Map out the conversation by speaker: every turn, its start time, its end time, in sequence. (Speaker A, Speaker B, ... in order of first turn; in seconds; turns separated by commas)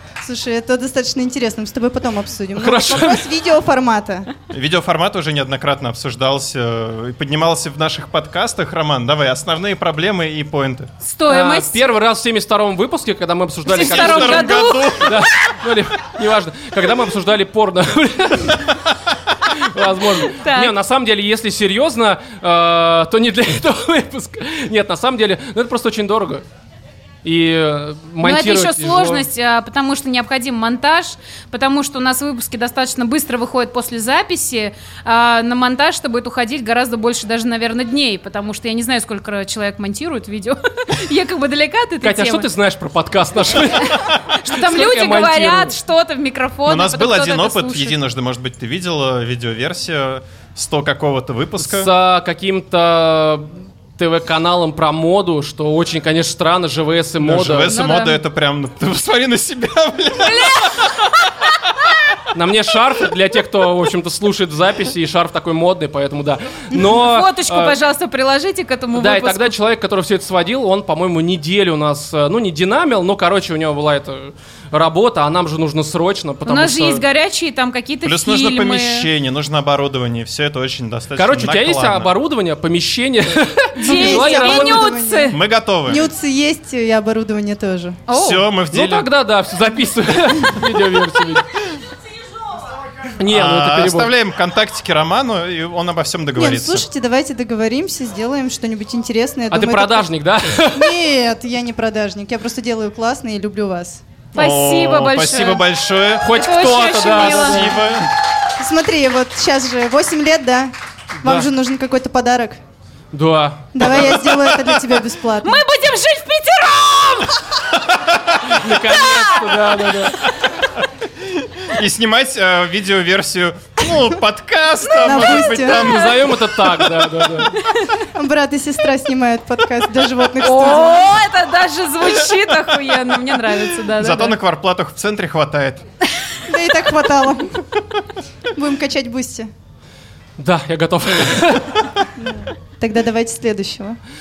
Speaker A: 0.2-4.3, Speaker B: 2.6-3.2, Speaker C: 4.5-10.9, Speaker D: 11.0-11.8, Speaker B: 11.3-18.7, Speaker D: 13.7-15.0, Speaker C: 13.7-15.1, Speaker B: 19.5-26.4, Speaker D: 20.2-20.7, Speaker B: 27.2-29.2, Speaker D: 28.2-42.5, Speaker B: 42.0-45.7, Speaker D: 44.4-48.0, Speaker C: 46.7-51.9, Speaker B: 51.6-57.7, Speaker C: 57.2-60.5, Speaker D: 57.7-58.2, Speaker B: 62.3-67.8, Speaker D: 66.8-69.5, Speaker B: 69.0-77.0, Speaker D: 76.5-79.1, Speaker C: 78.0-82.1, Speaker B: 81.2-84.8, Speaker D: 83.8-85.4, Speaker A: 83.8-88.0, Speaker C: 85.3-86.1, Speaker D: 88.1-88.4, Speaker C: 88.1-89.1, Speaker B: 88.7-91.5, Speaker B: 93.2-94.1, Speaker C: 93.3-96.8, Speaker A: 96.3-100.1, Speaker B: 99.5-100.8, Speaker A: 100.7-104.0, Speaker C: 104.3-106.2, Speaker D: 104.4-105.6, Speaker B: 106.2-107.8, Speaker D: 106.3-107.7, Speaker C: 107.2-108.0, Speaker A: 108.6-112.6, Speaker B: 113.1-114.2, Speaker A: 113.8-115.6, Speaker D: 115.4-117.4, Speaker B: 118.5-120.2, Speaker C: 121.7-126.2, Speaker A: 125.0-125.9, Speaker B: 125.9-127.5, Speaker A: 128.1-131.2, Speaker D: 130.4-134.3, Speaker C: 134.0-135.8, Speaker A: 136.5-137.6, Speaker A: 138.6-139.5, Speaker B: 140.4-141.7, Speaker A: 142.2-144.0